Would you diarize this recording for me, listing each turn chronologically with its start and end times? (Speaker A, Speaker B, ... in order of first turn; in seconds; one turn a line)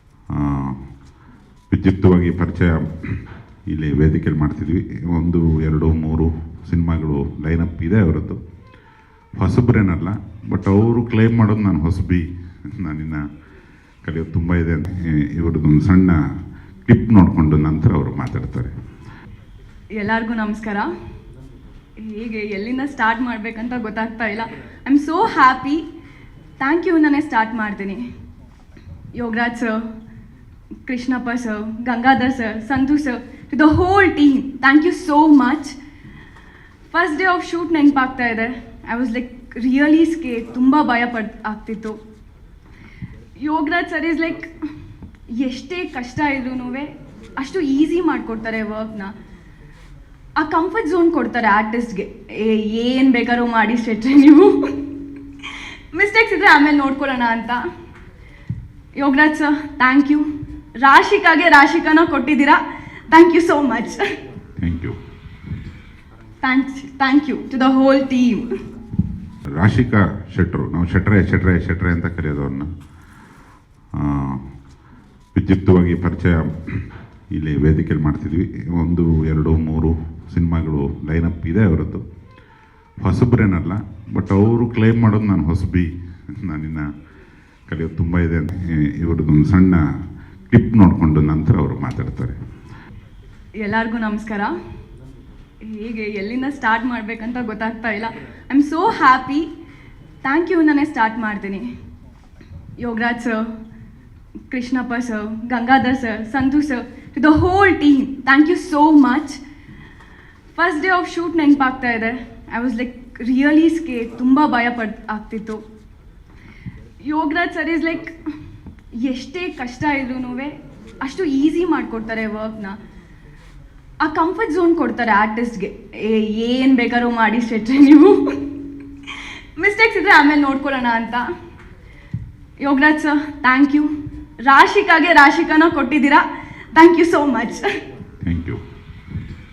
Speaker A: 0.3-0.8
Speaker A: 1.7-2.9
Speaker A: 3.7-8.4
Speaker A: 9.4-12.2
Speaker A: 12.8-13.2
Speaker A: 14.1-16.2
Speaker A: 16.9-18.7
Speaker B: 19.9-20.9
Speaker B: 22.0-25.9
Speaker B: 26.6-28.0
Speaker B: 29.2-29.8
Speaker B: 30.9-35.8
Speaker B: 36.9-42.0
Speaker B: 43.4-44.6
Speaker B: 45.3-49.1
Speaker B: 50.4-54.8
Speaker B: 55.9-57.6
Speaker B: 59.0-60.3
Speaker B: 60.8-64.2
Speaker A: 64.6-65.0
Speaker B: 66.4-68.5
Speaker A: 69.6-72.7
Speaker A: 74.0-74.4
Speaker A: 75.3-76.5
Speaker A: 77.3-82.0
Speaker A: 83.0-86.9
Speaker A: 87.7-89.8
Speaker A: 90.5-92.4
Speaker B: 93.6-94.5
Speaker B: 95.6-99.5
Speaker B: 100.2-101.7
Speaker B: 102.8-103.5
Speaker B: 104.5-109.4
Speaker B: 110.6-115.6
Speaker B: 117.0-118.3
Speaker B: 118.9-122.8
Speaker B: 124.0-128.4
Speaker B: 129.6-131.2
Speaker B: 132.6-133.9
Speaker B: 134.4-137.8
Speaker A: 138.2-138.6